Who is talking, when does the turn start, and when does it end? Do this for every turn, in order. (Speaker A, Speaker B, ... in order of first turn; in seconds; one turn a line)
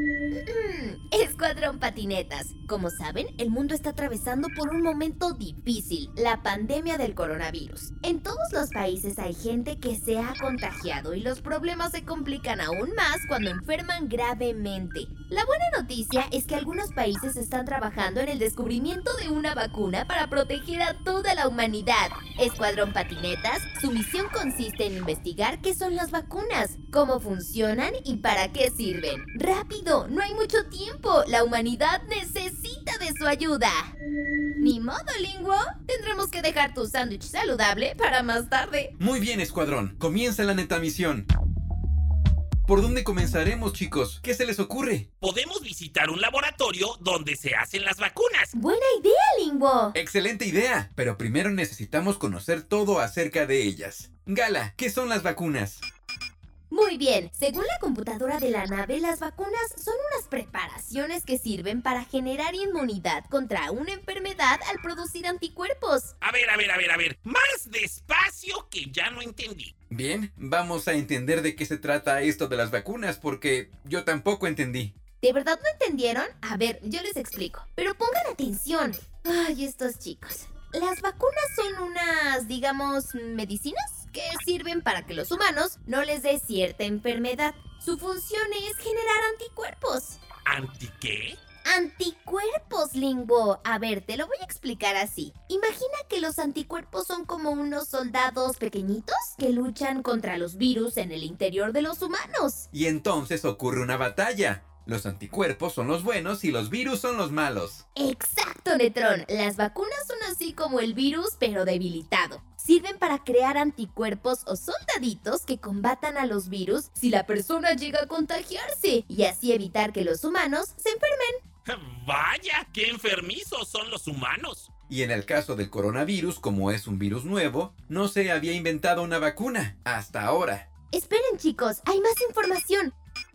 Speaker A: 0.3-33.9
Speaker A: 34.6-38.9
Speaker B: 39.0-41.3
Speaker B: 42.7-45.1
Speaker C: 45.2-48.5
Speaker A: 48.5-50.0
Speaker B: 49.9-55.8
Speaker A: 56.7-66.1
Speaker C: 66.2-69.7
Speaker B: 69.9-74.9
Speaker A: 75.2-90.2
Speaker C: 90.5-91.4
Speaker A: 91.6-102.7
Speaker B: 102.7-107.8
Speaker A: 108.0-121.4
Speaker C: 121.7-124.7
Speaker B: 124.9-130.7
Speaker A: 130.9-132.9